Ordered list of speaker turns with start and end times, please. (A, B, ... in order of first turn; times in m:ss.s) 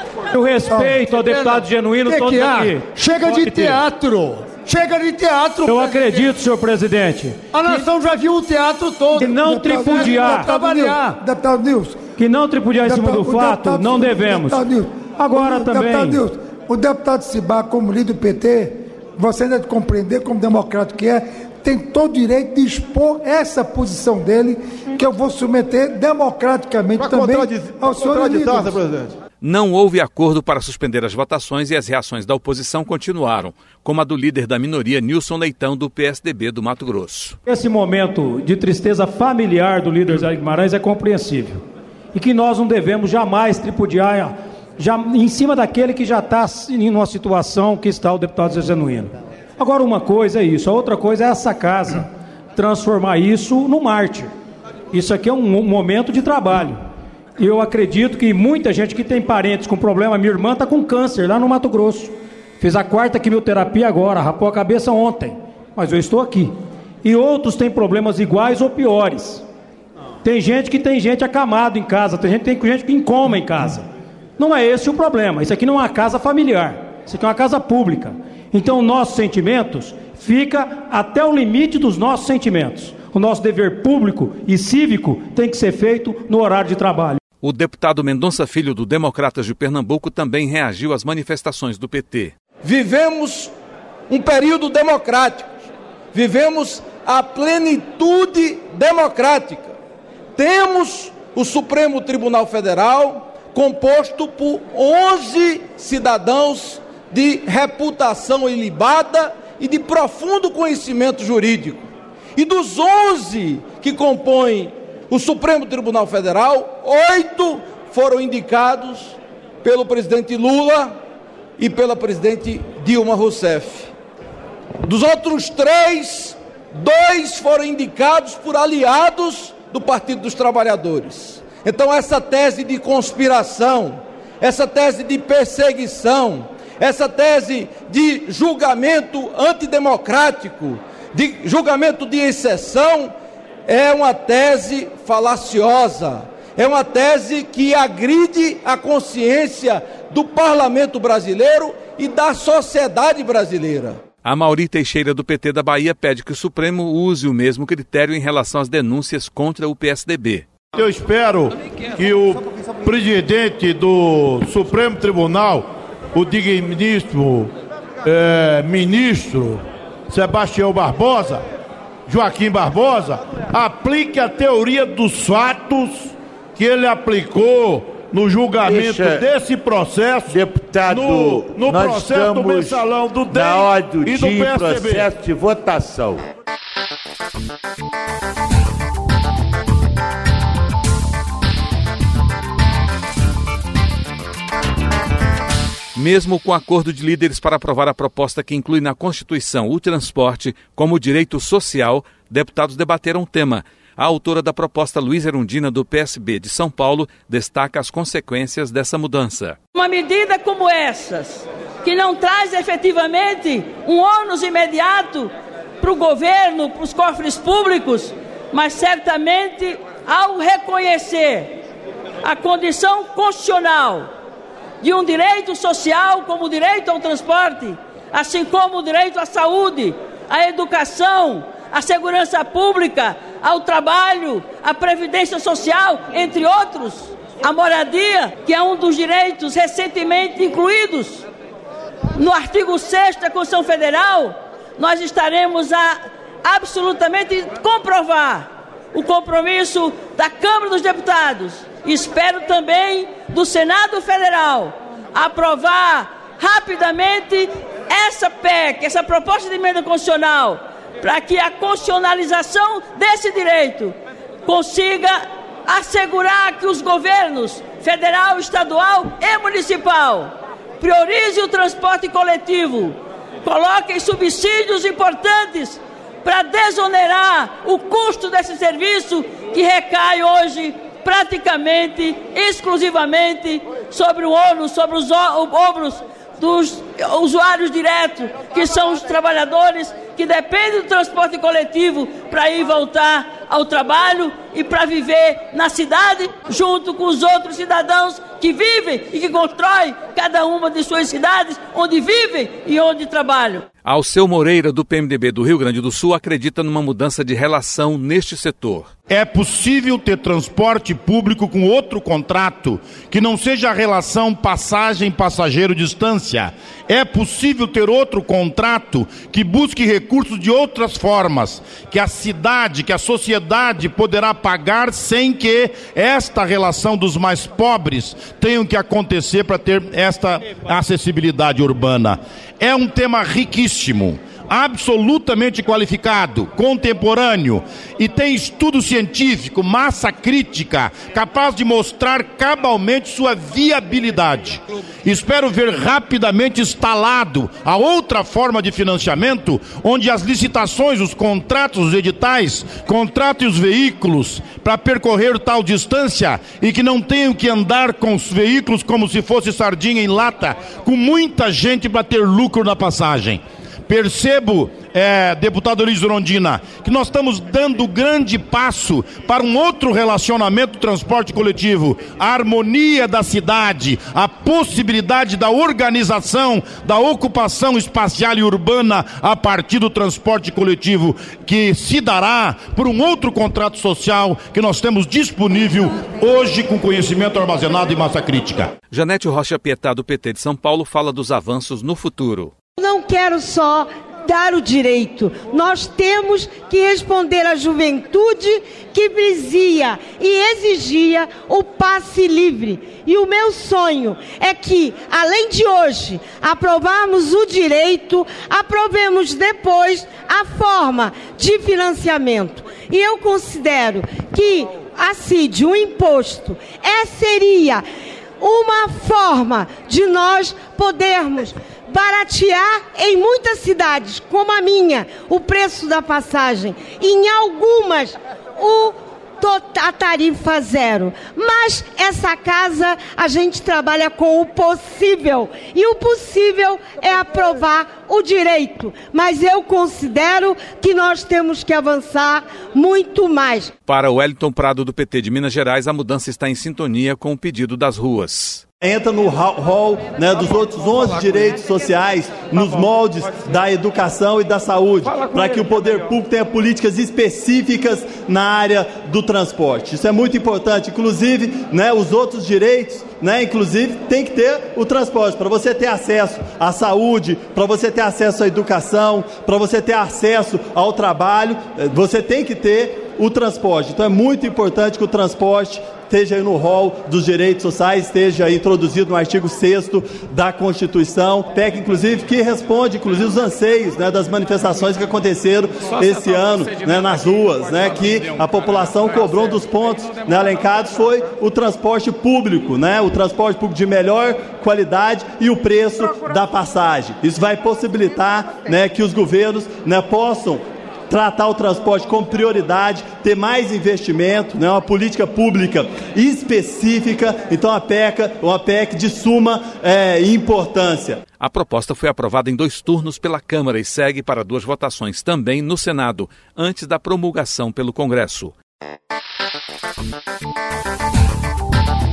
0:00.3-0:03.8 A
0:00.7-0:06.2 B
0:05.6-0:07.9 A
0:07.5-0:11.2 B
0:09.1-0:10.5 A
0:09.4-0:12.0 C
0:12.2-0:14.6 A
0:12.8-0:28.8 C
0:15.2-0:16.2 A
0:27.0-0:29.1 B
0:29.4-0:37.4 D
0:37.5-0:54.3 A
0:54.9-0:56.8 A
0:57.4-1:09.4 A
1:10.2-1:13.9 A
1:14.4-1:27.2 A
1:27.4-1:32.3 D
1:32.6-1:33.5 E
1:34.1-1:35.5 E
1:36.1-1:39.8 E
1:40.4-2:01.0 E
2:01.6-2:03.9 E
2:04.8-2:23.1 E
2:23.7-2:34.0 E
2:34.2-2:40.5 D
2:40.7-2:47.5 F
2:48.0-2:51.4 F
2:52.1-3:00.4 F
2:58.6-2:59.3 G
3:00.3-3:06.2 G
3:00.9-3:05.1 F
3:16.0-3:29.6 D
3:29.8-3:41.6 H
3:42.2-3:44.1 H
3:44.8-4:01.2 H
4:02.2-5:03.7 H
5:03.8-5:08.9 D
5:09.1-6:28.7 F
6:28.9-6:32.5 D
6:32.8-6:57.8 I
6:58.4-7:23.7 I
7:23.9-7:28.6 D
7:28.8-8:31.2 J
8:31.4-8:38.5 D